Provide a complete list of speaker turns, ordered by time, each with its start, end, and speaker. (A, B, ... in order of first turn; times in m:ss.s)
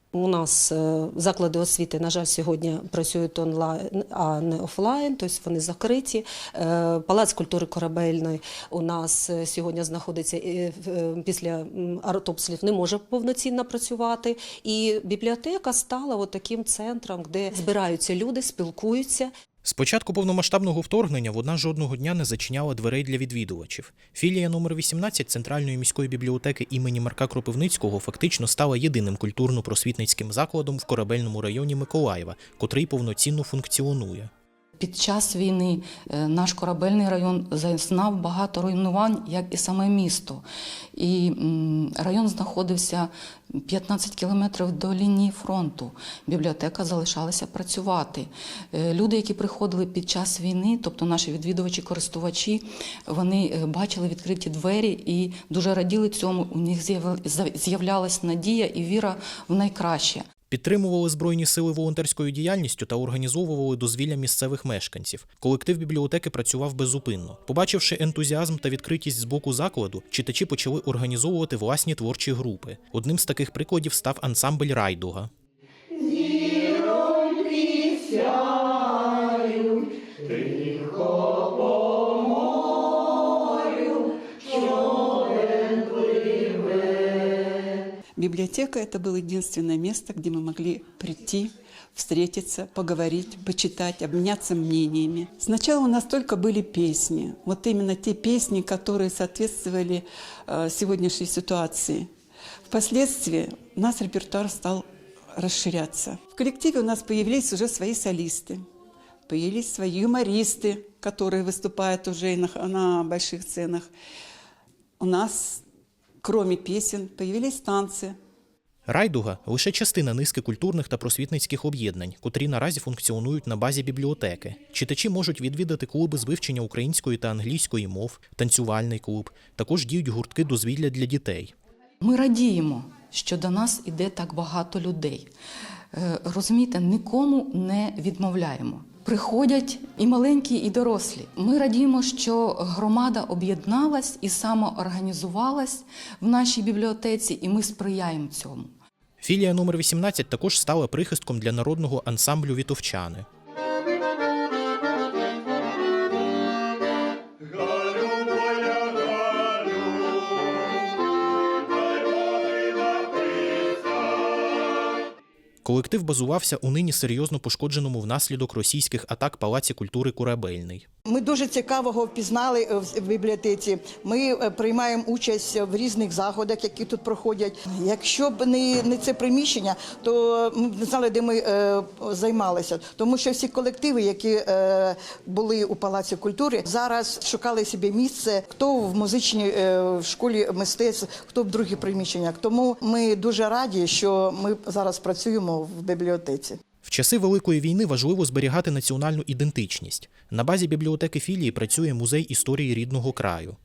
0:00.1-0:19.3 A
0:19.6-0:34.3 B
0:34.8-0:40.4 C
0:41.0-1:00.3 C
1:00.5-1:15.3 B
1:28.2-1:42.1 D
1:42.7-1:48.6 D
1:49.3-1:53.9 D
1:55.0-1:55.6 D
1:56.2-1:58.2 D
1:58.9-2:11.5 B
2:12.0-2:15.3 C
2:15.9-2:28.7 C
2:29.2-2:33.3 B
2:45.6-2:50.8 B
2:51.1-3:16.6 E
3:16.8-3:23.6 B